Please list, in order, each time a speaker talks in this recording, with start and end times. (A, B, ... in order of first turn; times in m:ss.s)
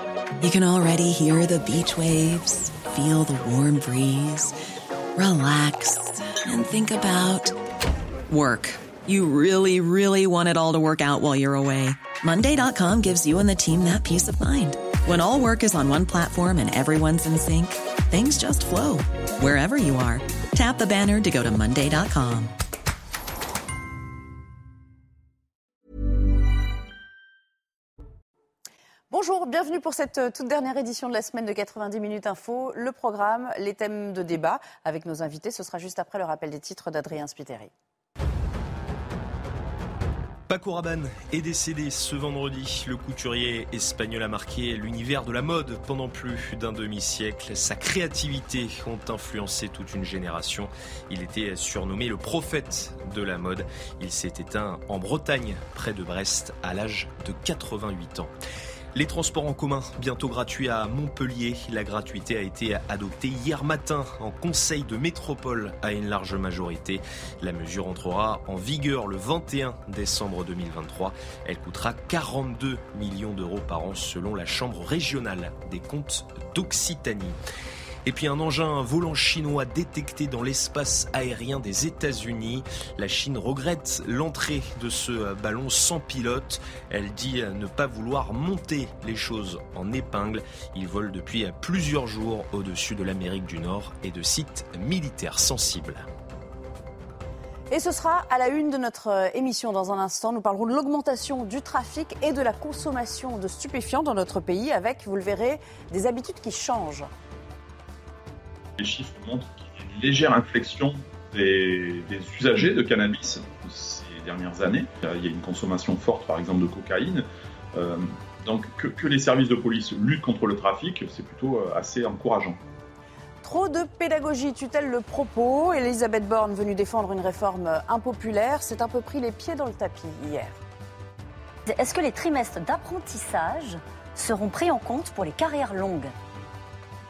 0:00.4-0:04.5 A
0:05.2-0:07.5 A
0:08.3-0:22.5 A
0:29.1-0:37.7 B
0:40.5-0:58.3 C
0:58.9-1:17.4 C
1:18.0-1:36.0 C
1:37.7-1:47.1 B
1:48.8-2:02.6 D
2:03.4-2:10.6 B
2:11.7-2:16.1 E